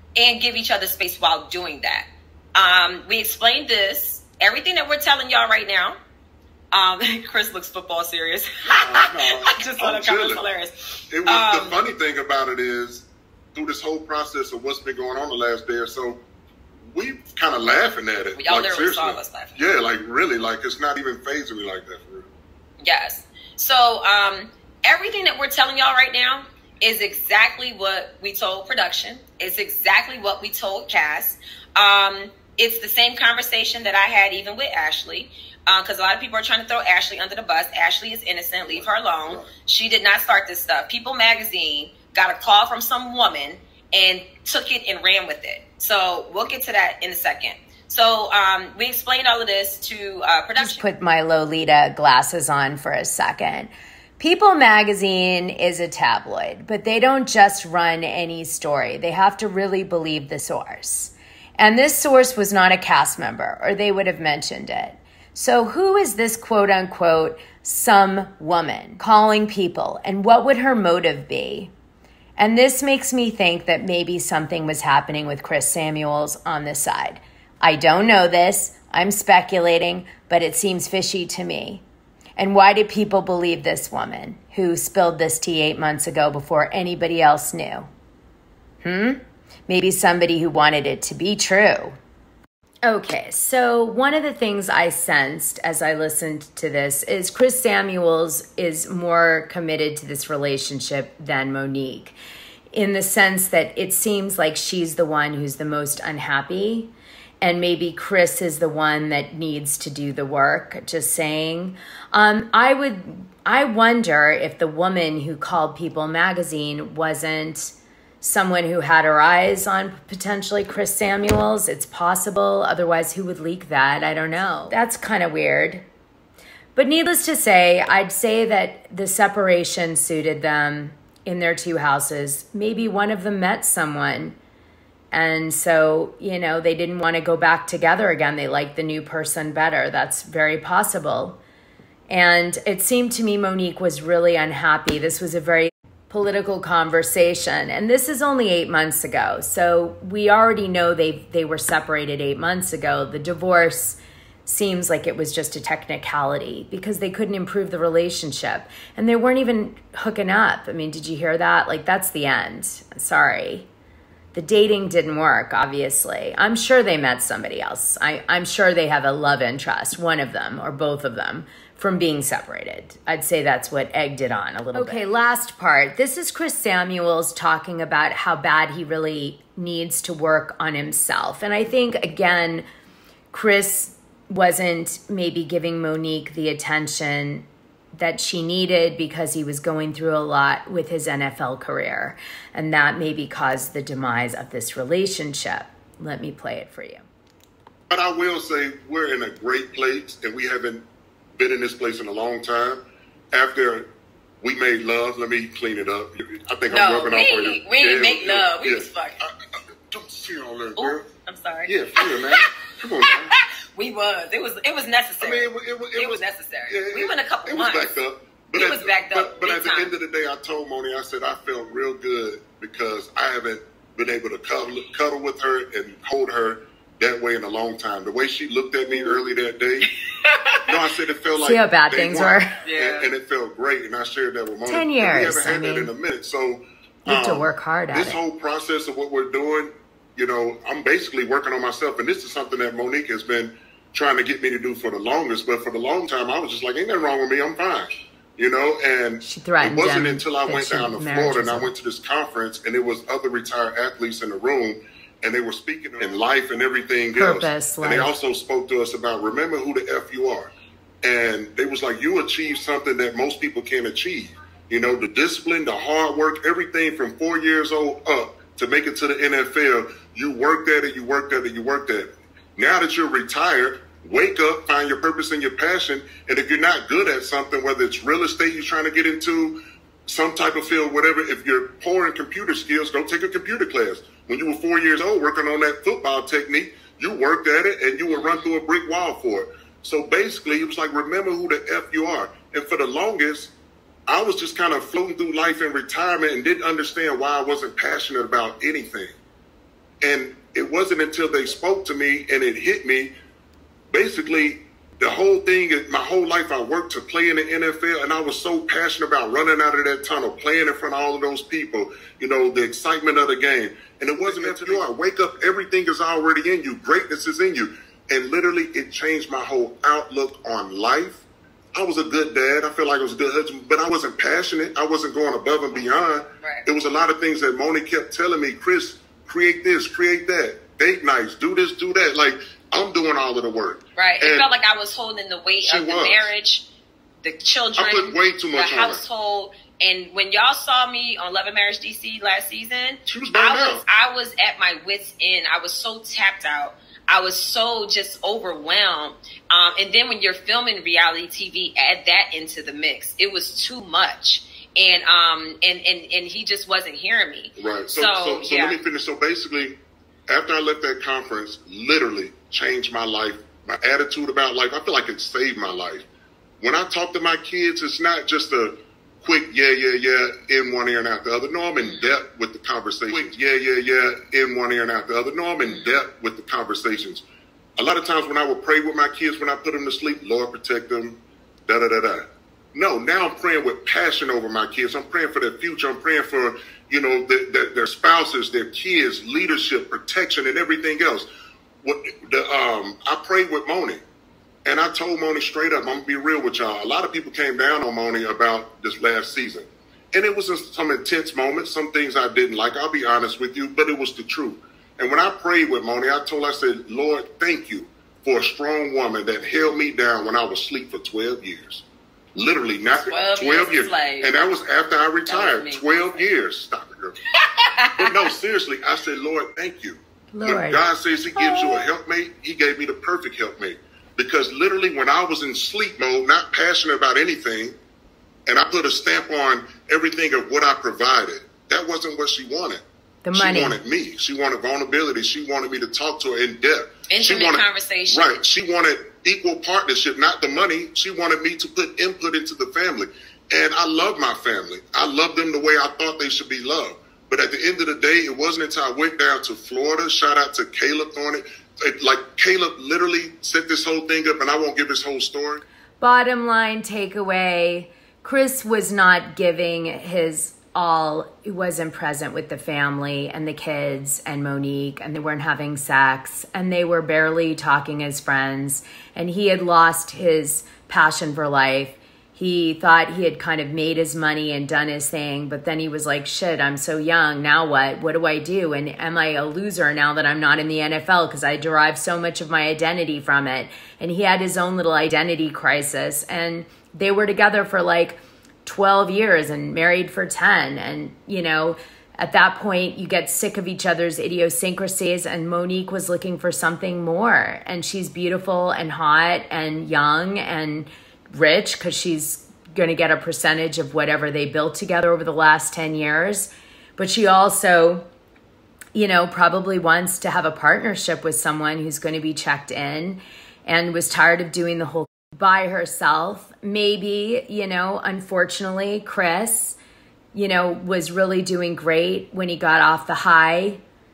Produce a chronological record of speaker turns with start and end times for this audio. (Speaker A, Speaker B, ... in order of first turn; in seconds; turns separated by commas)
Speaker A: 0.1-6.0, Speaker A: 6.7-11.8, Speaker B: 8.7-10.4, Speaker B: 11.1-16.2, Speaker B: 16.9-22.3, Speaker A: 18.4-19.6, Speaker A: 22.8-50.8, Speaker B: 38.6-39.5, Speaker C: 50.6-71.7, Speaker C: 72.4-81.8, Speaker C: 82.4-87.9, Speaker C: 88.8-92.0, Speaker C: 92.8-102.1, Speaker C: 102.7-125.8, Speaker C: 126.8-134.3, Speaker C: 135.1-141.4, Speaker C: 142.1-163.7, Speaker C: 164.3-182.6, Speaker C: 183.3-187.4, Speaker C: 187.9-197.0, Speaker B: 197.9-200.8, Speaker B: 201.3-202.8, Speaker B: 203.3-203.9, Speaker B: 204.4-209.3, Speaker A: 206.7-209.2, Speaker B: 209.9-211.1, Speaker A: 210.8-217.9, Speaker B: 211.7-213.4, Speaker B: 215.2-229.9, Speaker A: 218.5-219.9, Speaker A: 230.2-230.6, Speaker B: 230.7-260.5, Speaker C: 231.4-232.6, Speaker A: 232.6-233.1, Speaker C: 234.6-235.9, Speaker C: 237.1-238.2, Speaker C: 249.2-251.7, Speaker C: 257.1-258.1, Speaker B: 261.0-293.5, Speaker A: 288.1-288.4, Speaker B: 294.1-299.1, Speaker B: 300.0-303.1, Speaker B: 303.9-321.2, Speaker B: 321.7-334.5, Speaker A: 333.9-336.7, Speaker B: 335.6-336.3, Speaker A: 337.2-358.8, Speaker B: 337.8-339.0, Speaker B: 343.1-343.8, Speaker B: 357.6-366.0, Speaker B: 366.6-377.2, Speaker B: 377.8-391.3, Speaker B: 391.8-394.0, Speaker B: 394.6-411.8, Speaker B: 412.3-417.2, Speaker A: 413.0-414.3, Speaker A: 415.2-416.3, Speaker A: 417.3-418.3, Speaker B: 417.9-427.8, Speaker C: 420.3-420.8, Speaker C: 421.4-421.8, Speaker B: 428.5-455.6, Speaker C: 433.2-433.8, Speaker A: 437.1-438.4, Speaker C: 456.0-508.0, Speaker C: 508.9-519.8, Speaker C: 520.3-523.8